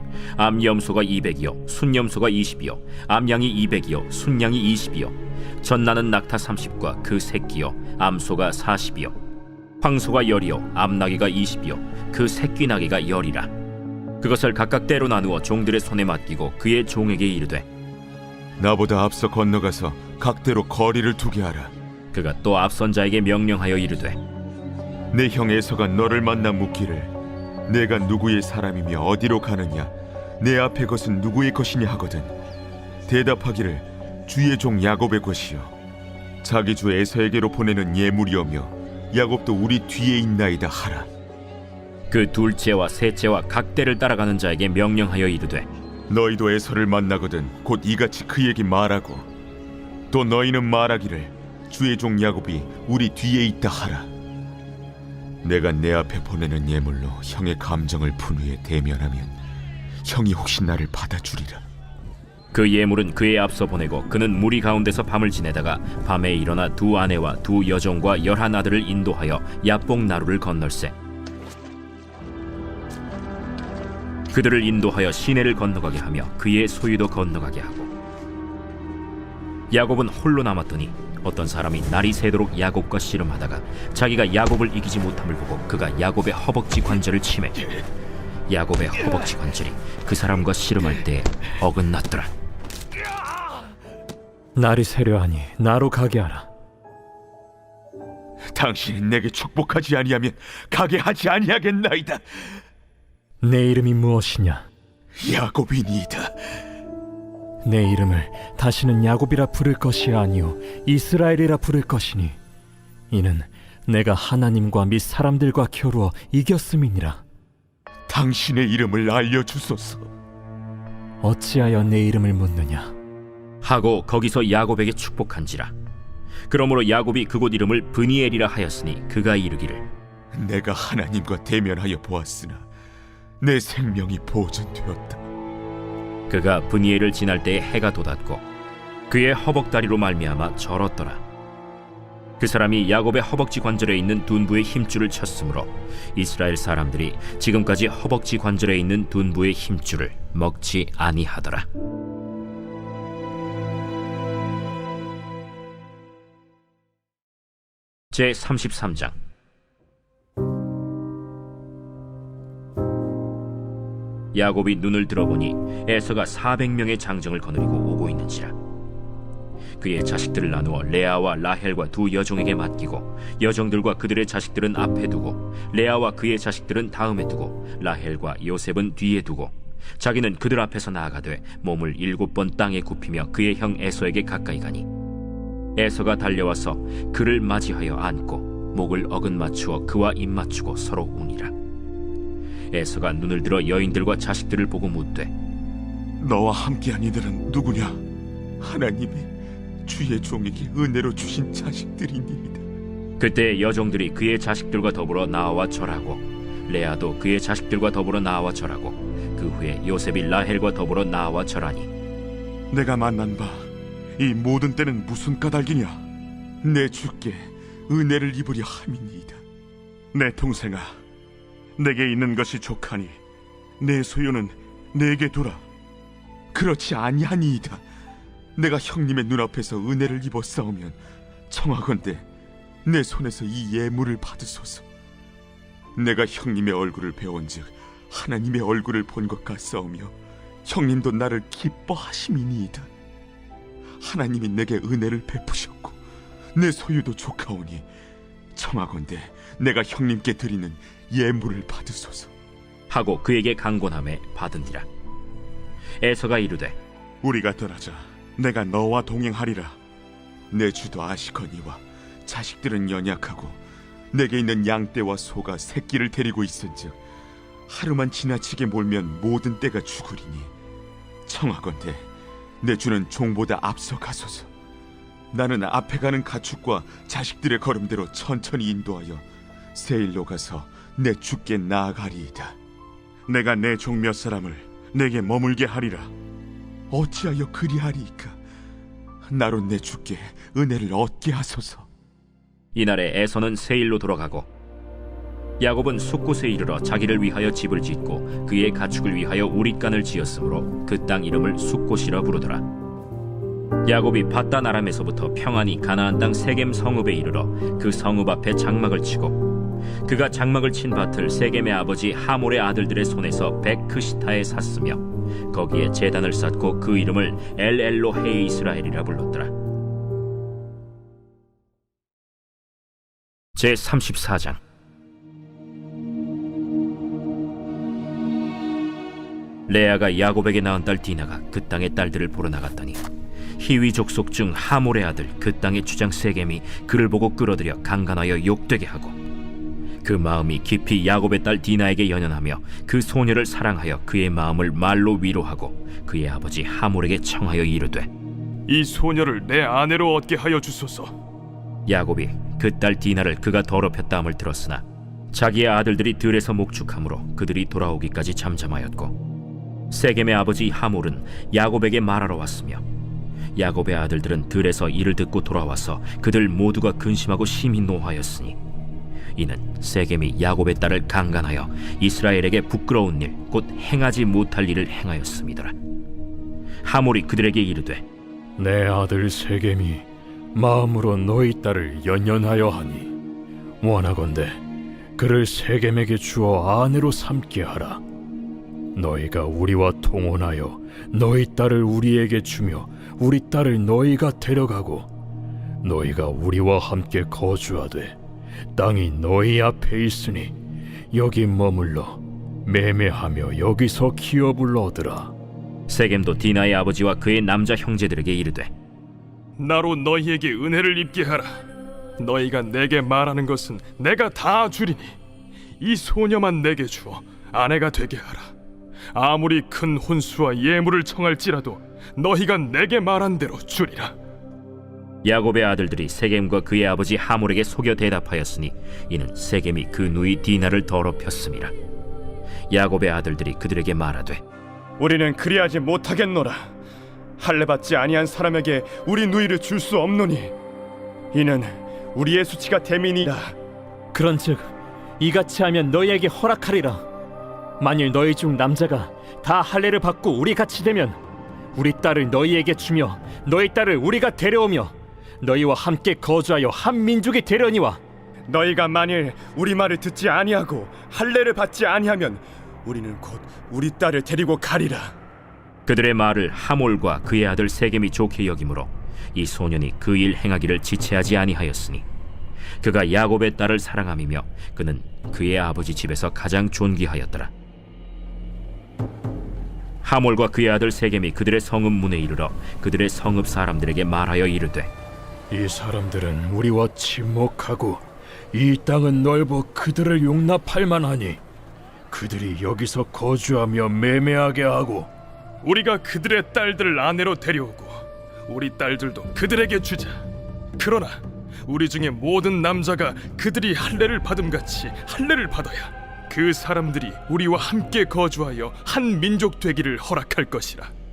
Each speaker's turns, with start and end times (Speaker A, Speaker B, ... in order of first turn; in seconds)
Speaker A: 0.3-9.1, 9.8-13.5, 14.2-17.6, 22.1-24.2, 42.1-45.7, 62.5-70.9, 74.3-77.9, 79.7-87.7, 88.5-92.3, 123.6-125.7, 126.5-129.8, 136.3-138.4, 139.1-141.2, 142.4-151.7, 158.1-159.1, 164.3-168.5, 169.8-184.9, 185.8-191.5, 192.7-195.3, 203.2-211.9, 252.9-254.8, 256.0-256.8, 292.7-294.5, 295.6-302.6, 303.8-319.5, 323.6-324.6, 329.7-333.0, 333.6-339.1, 340.0-348.1, 351.9-359.2, 359.9-362.8, 363.5-368.6, 369.4-375.7, 376.8-378.0, 405.9-408.7, 425.2-431.7, 432.7-434.4, 465.9-472.0, 472.8-477.5, 480.0-484.9
Speaker B: 18.6-21.7, 25.1-27.1, 27.7-32.3, 33.1-35.7, 36.4-41.1, 46.1-49.2, 50.1-54.1, 55.4-59.4, 60.0-61.6, 98.5-102.5, 105.2-106.5, 118.1-120.1, 130.3-132.7, 133.4-135.2, 196.2-198.0, 198.6-199.3, 199.8-202.6, 212.7-216.0, 216.6-219.4, 220.1-221.0, 221.8-223.2, 223.8-225.6, 226.5-227.8, 228.6-231.0, 231.5-232.3, 232.8-234.8, 235.9-242.9, 244.0-246.0, 246.5-247.9, 248.5-252.3, 257.2-259.8, 260.5-263.6, 264.1-267.0, 267.7-270.5, 271.2-272.1, 272.6-274.5, 275.3-282.6, 283.3-286.1, 286.9-288.4, 289.3-291.9
Speaker C: 94.5-96.5, 103.4-104.7, 107.6-112.4, 113.1-117.2, 121.2-122.9, 378.6-383.2, 383.8-384.6, 385.1-388.0, 388.9-395.1, 395.8-398.2, 398.7-400.6, 401.1-405.3, 444.1-447.1, 447.8-451.2, 451.7-458.0, 485.5-491.4, 492.1-495.1
Speaker D: 348.7-351.1, 409.6-411.6, 412.2-415.1, 415.8-418.5, 419.1-424.1, 495.6-500.2, 500.8-510.9
Speaker E: 435.0-436.7, 437.4-440.6, 441.3-443.5, 458.5-465.1